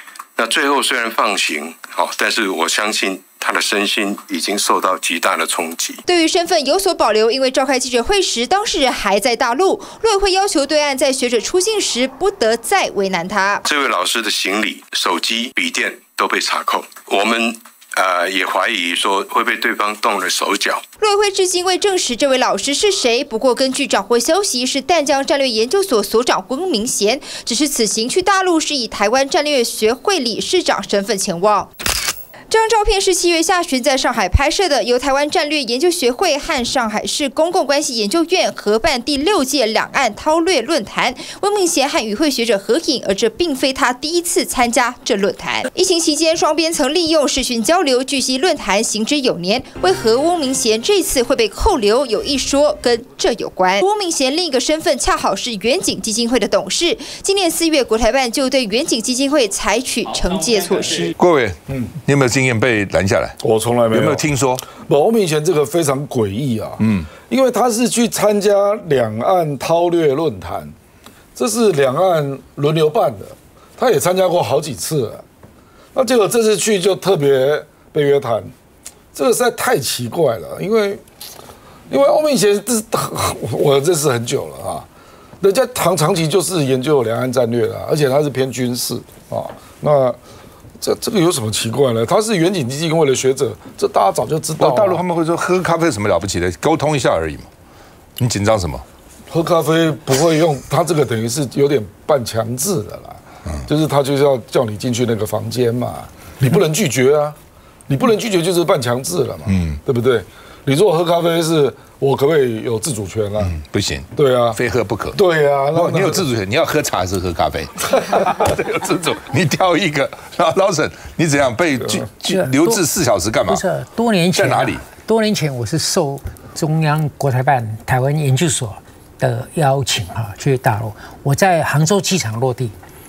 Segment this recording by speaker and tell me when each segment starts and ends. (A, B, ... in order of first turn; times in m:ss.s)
0:00.4-0:06.0 A
0:06.1-0:13.6 B
0:13.6-0:20.8 A
0:21.0-0:31.7 B
0:32.5-1:01.1 B
1:01.2-1:03.4 C
1:03.4-1:10.7 D
1:03.9-1:04.6 C
1:06.8-1:07.1 C
1:11.4-1:15.2 D
1:15.9-1:18.5 D
1:19.1-1:21.0 D
1:21.9-1:24.8 D
1:25.4-1:30.2 D
1:30.8-1:35.0 D
1:34.6-1:37.5 C
1:38.2-1:38.8 C
1:39.3-1:47.4 D
1:47.9-1:53.6 D
1:49.5-1:49.8 C
1:53.4-1:55.2 C
1:54.2-1:54.6 D
1:55.1-1:56.2 D
1:55.7-2:03.6 C
2:02.2-2:02.8 E
2:03.4-2:12.7 E
2:04.3-2:04.8 C